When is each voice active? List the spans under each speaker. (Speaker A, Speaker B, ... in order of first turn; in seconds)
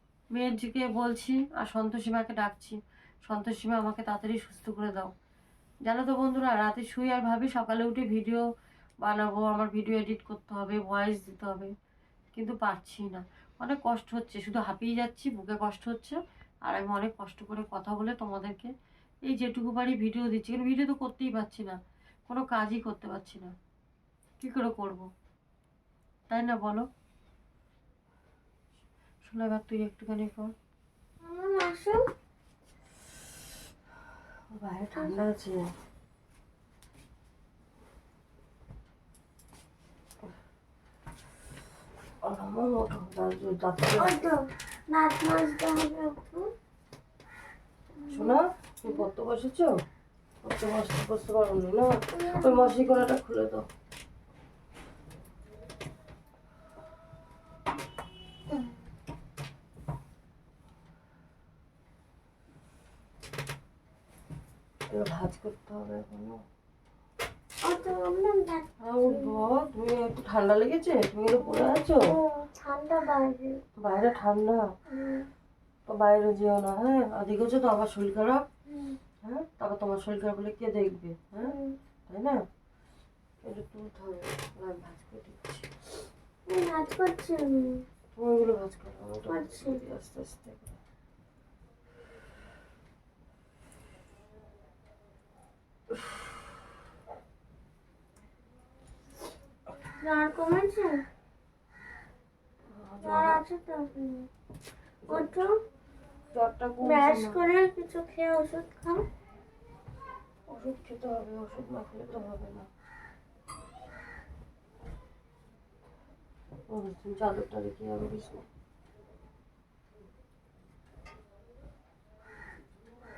Speaker A: 0.3-5.1, 5.8-8.4, 9.0-11.7, 12.3-18.7, 19.3-23.5, 24.4-25.1, 26.3-26.9, 29.2-30.5, 34.5-35.6, 42.2-44.1, 48.1-49.8, 50.4-53.7, 64.9-66.4, 68.8-72.0, 73.8-74.7, 75.9-78.4, 79.2-81.5, 82.1-82.4, 83.4-85.7, 88.2-90.8, 102.7-103.4, 105.1-105.4, 106.3-107.4, 110.5-112.7, 116.7-118.4
Speaker B: 31.2-32.0, 44.0-46.5, 48.0-48.4, 52.1-52.8, 67.6-69.4, 71.6-73.6, 74.9-75.3, 78.7-79.0, 81.5-81.8, 86.5-87.8, 89.3-89.8, 100.0-101.0, 103.0-104.3, 105.1-105.5, 106.8-109.0